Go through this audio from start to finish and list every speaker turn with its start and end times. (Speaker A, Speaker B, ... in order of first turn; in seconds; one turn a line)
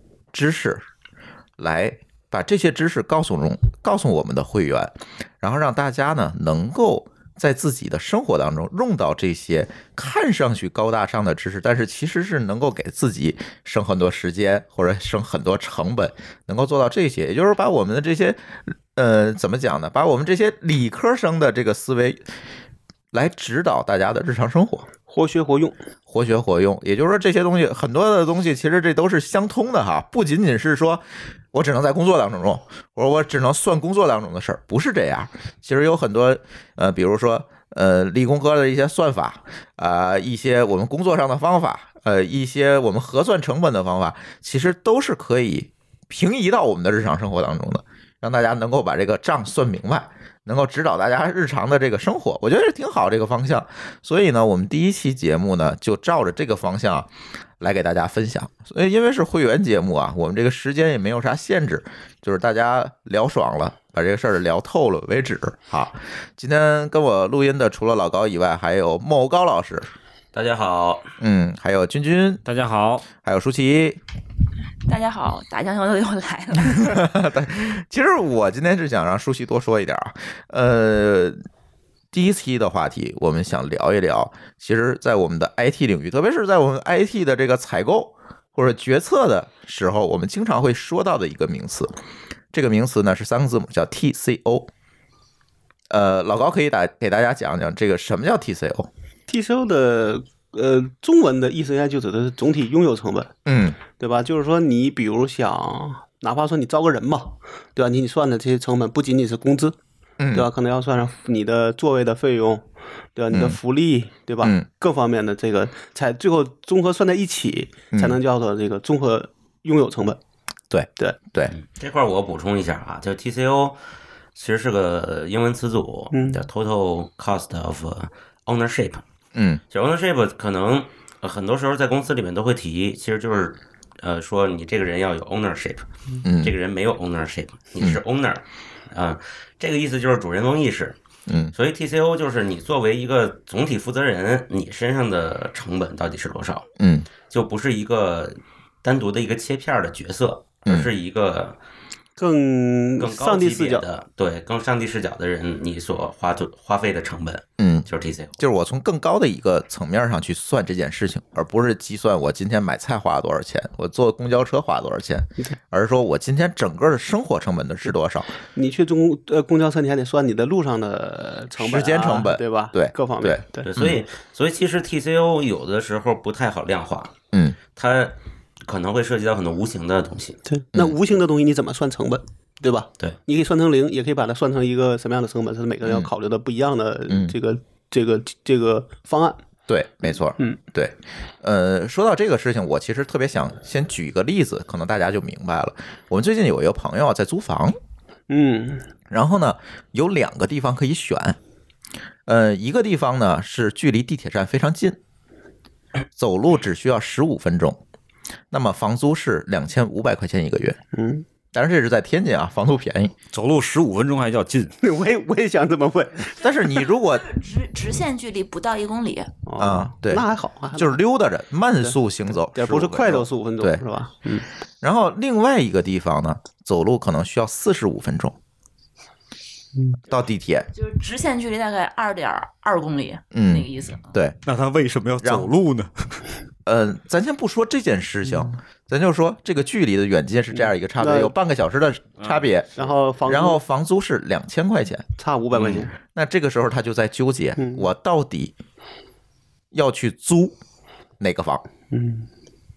Speaker A: 0.3-0.8
Speaker A: 1.6-22.2
Speaker A: 23.1-24.9
Speaker B: 25.1-25.8
Speaker A: 26.1-57.1
Speaker A: 57.6-69.9
Speaker C: 70.3-71.1
Speaker A: 71.2-72.5
Speaker D: 72.5-73.1
Speaker A: 73.2-74.0
Speaker E: 74.9-77.1
Speaker A: 76.9-81.4
Speaker A: 82.1-91.9
Speaker A: 92.5-94.7
Speaker A: 95.9-98.9
Speaker B: 99.3-103.3
Speaker A: 103.5-103.8
Speaker B: 104.0-109.8
Speaker A: 110.2-110.5
Speaker B: 110.3-112.6
Speaker B: 113.2-120.2
Speaker A: 113.3-113.6
Speaker A: 117.9-118.2
Speaker A: 120.7-121.5
Speaker C: 121.5-123.8
Speaker C: 124.4-129.0
Speaker B: 126.1-126.5
Speaker A: 129.3-129.6
Speaker C: 129.7-135.9
Speaker A: 136.2-136.5
Speaker C: 136.4-141.0
Speaker A: 141.3-141.6
Speaker C: 141.5-146.7
Speaker A: 146.8-147.1
Speaker C: 147.3-151.6
Speaker B: 152.2-153.9
Speaker C: 153.0-158.4
Speaker A: 157.6-168.3
Speaker B: 168.5-173.7
Speaker A: 171.6-174.0
Speaker C: 173.6-177.1
Speaker A: 177.3-177.6
Speaker C: 177.8-180.4
Speaker B: 180.5-189.4
Speaker A: 185.8-186.1
Speaker A: 187.1-187.3
Speaker A: 189.7-197.8
Speaker B: 198.3-198.8
Speaker A: 199.1-201.4
Speaker A: 202.3-205.0
Speaker A: 206.2-207.8
Speaker A: 208.5-210.8
Speaker B: 210.9-211.2
Speaker A: 211.5-213.1
Speaker D: 213.3-214.8
Speaker B: 214.8-216.5
Speaker A: 216.4-217.3
Speaker E: 217.2-219.3
Speaker B: 219.5-221.0
Speaker A: 219.6-223.8
Speaker B: 221.8-224.5
Speaker A: 224.8-228.4
Speaker A: 230.1-230.7
Speaker E: 230.8-234.1
Speaker A: 233.3-234.4
Speaker D: 234.4-236.2
Speaker A: 235.2-235.5
Speaker A: 236.7-245.1
Speaker B: 240.5-241.3
Speaker C: 242.2-242.5
Speaker B: 242.8-243.6
Speaker B: 245.2-245.9
Speaker C: 245.5-245.9
Speaker A: 246.1-248.5
Speaker B: 247.6-247.9
Speaker A: 249.7-250.6
Speaker A: 251.2-251.6
Speaker B: 251.9-252.3